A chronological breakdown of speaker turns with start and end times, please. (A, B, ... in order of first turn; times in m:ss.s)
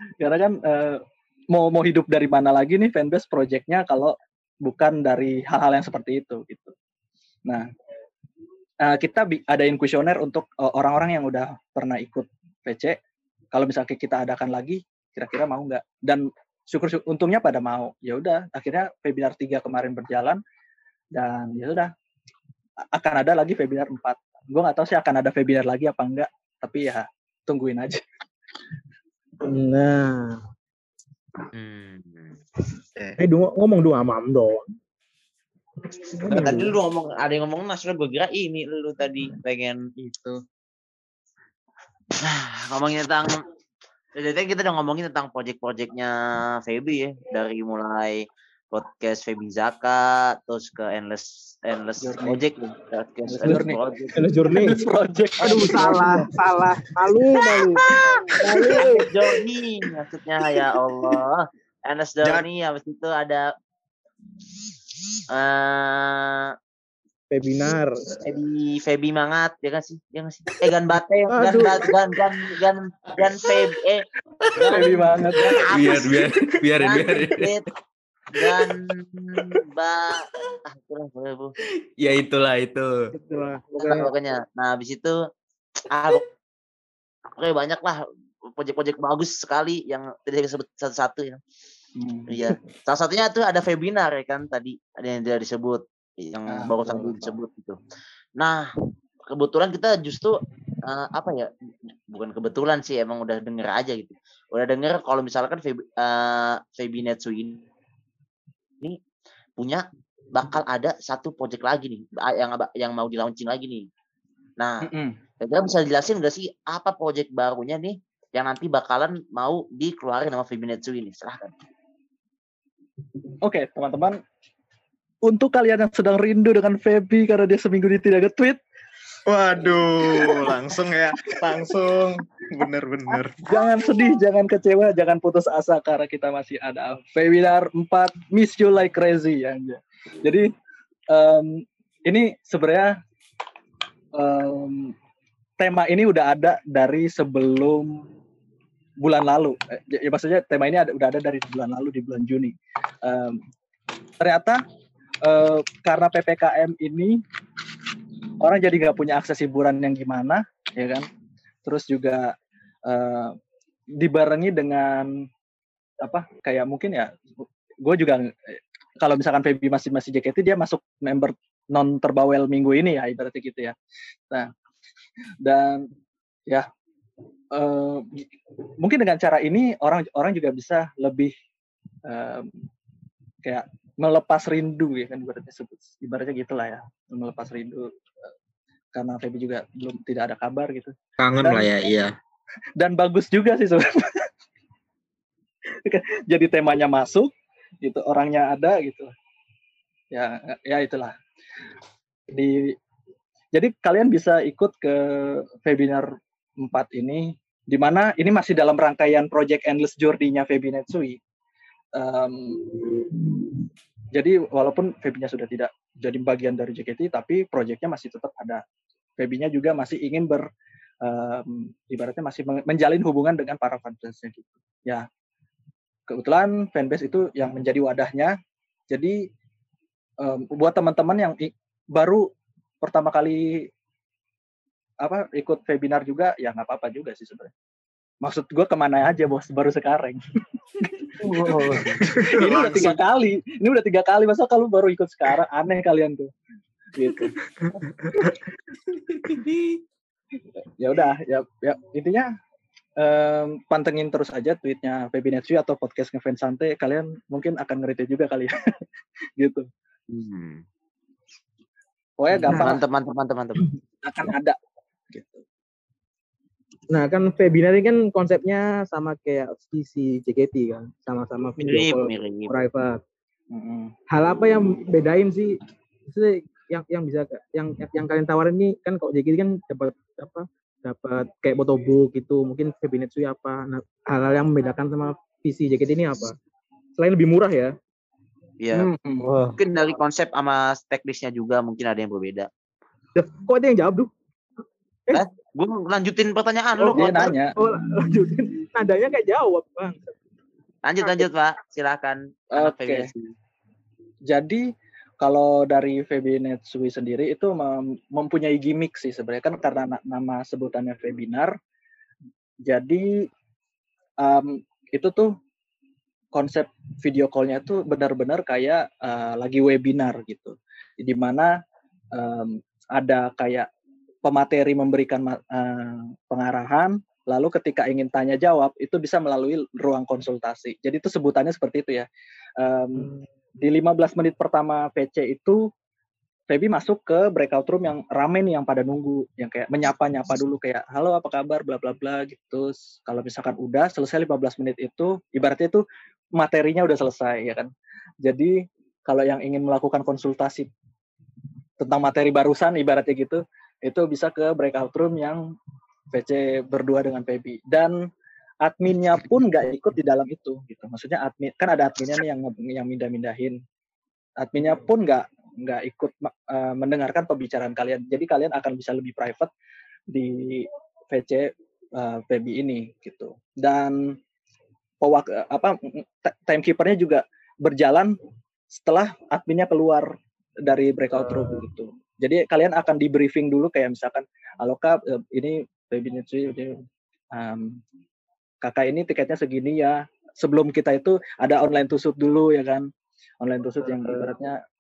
0:00.2-0:06.7 A
0:08.8-0:13.0 A
0:13.5-0:20.4 A
0:21.1-0:21.9 A
0:22.9-0:28.0 A
0:29.4-0:30.4 B
0:31.5-0:32.4 C
0:33.2-0:34.7 B
0:36.2-0:36.7 B
0:36.3-0:39.9 C
0:40.0-0:40.4 A
0:42.2-0:43.4 C
0:44.2-0:54.2 C
0:52.0-0:52.8 A
0:53.3-0:56.3 A
0:54.2-0:54.8 B
0:55.4-0:59.0 B
0:55.7-0:56.0 C
0:58.0-0:58.2 C
0:58.4-0:59.4 A
0:58.7-1:03.5 C
1:05.3-1:06.5 C
1:07.3-1:08.0 B
1:08.2-1:17.6 C
1:11.3-1:11.9 B
1:14.4-1:14.8 D
1:14.7-1:15.6 A
1:15.4-1:17.6 D
1:18.3-1:21.6 C
1:18.4-1:18.7 D
1:22.0-1:23.1 D
1:23.1-1:24.1 B
1:23.8-1:25.2 C
1:25.9-1:26.3 C
1:27.4-1:28.0 C
1:28.6-1:31.4 C
1:32.0-1:32.6 A
1:32.3-1:37.8 C
1:36.5-1:37.3 A
1:38.4-1:38.7 C
1:39.3-1:41.5 C
1:42.1-1:47.6 C
1:49.6-1:53.9 C
1:54.6-1:54.9 C
1:54.8-1:55.2 A
1:55.4-2:01.5 C
2:03.4-2:04.2 A
2:05.2-2:08.6 A
2:09.3-2:13.4 E
2:10.1-2:10.6 A
2:13.4-2:20.5 A
2:21.1-2:23.0 A
2:24.2-2:24.9 A
2:25.6-2:28.0 A
2:29.0-2:33.4 A
2:34.2-2:34.6 A
2:35.2-2:37.2 A
2:38.4-2:41.1 A
2:41.6-2:42.3 A
2:42.9-2:43.4 A
2:44.0-2:45.3 A
2:46.0-2:47.1 A
2:47.8-2:53.8 A
2:55.4-2:55.9 A
2:57.5-2:58.3 A
2:58.8-3:01.3 A
3:02.1-3:02.5 A
3:03.4-3:08.3 A
3:09.0-3:11.7 A
3:11.2-3:12.1 E
3:12.8-3:14.3 A
3:15.8-3:17.3 A
3:17.8-3:19.1 A
3:20.1-3:21.1 A
3:22.3-3:22.8 A
3:23.5-3:26.1 A
3:26.6-3:31.2 A
3:32.0-3:32.9 A
3:34.1-3:38.6 A
3:39.2-3:40.5 A
3:41.0-3:45.1 A
3:46.1-3:48.4 A
3:48.9-3:49.2 A
3:50.2-3:52.3 A
3:52.8-3:53.7 A
3:55.0-3:57.5 A
3:58.2-4:00.2 A
4:01.2-4:02.1 C
4:01.4-4:06.3 A
4:02.1-4:03.0 E
4:07.0-4:07.4 A
4:09.2-4:09.8 D
4:10.6-4:12.3 A
4:13.0-4:18.6 A
4:19.4-4:19.7 A
4:20.1-4:20.6 C
4:22.2-4:22.8 A
4:22.4-4:23.7 C
4:22.5-4:22.8 B
4:24.0-4:24.6 A
4:25.1-4:25.4 A
4:26.9-4:33.0 B
4:31.6-4:32.6 C
4:33.5-4:33.9 A
4:34.1-4:35.6 B
4:36.1-4:46.3 B
4:47.0-4:47.8 B
4:48.6-4:48.9 C
4:48.7-4:49.3 A
4:49.2-4:49.6 E
4:49.6-4:52.5 C
4:53.2-4:54.1 B
4:55.1-4:57.4 C
4:56.8-4:57.6 A
4:56.9-5:00.2 B
5:00.8-5:03.3 C
5:02.5-5:03.1 A
5:04.3-5:04.7 A
5:05.2-5:11.6 A
5:12.6-5:13.3 A
5:14.2-5:15.3 A
5:16.3-5:21.6 A
5:22.2-5:23.7 A
5:24.2-5:32.1 A
5:32.6-5:33.1 A
5:33.0-5:33.2 B
5:33.6-5:35.6 A
5:36.5-5:45.8 A
5:46.4-5:47.7 A
5:48.2-5:50.7 A
5:51.8-5:55.4 A
5:56.1-5:58.0 A
5:58.6-6:03.6 A
6:04.4-6:09.5 A
6:10.1-6:14.1 A
6:15.0-6:18.1 A
6:18.7-6:20.1 A
6:20.6-6:26.8 A
6:27.3-6:27.8 A
6:28.6-6:32.9 A
6:33.4-6:34.6 A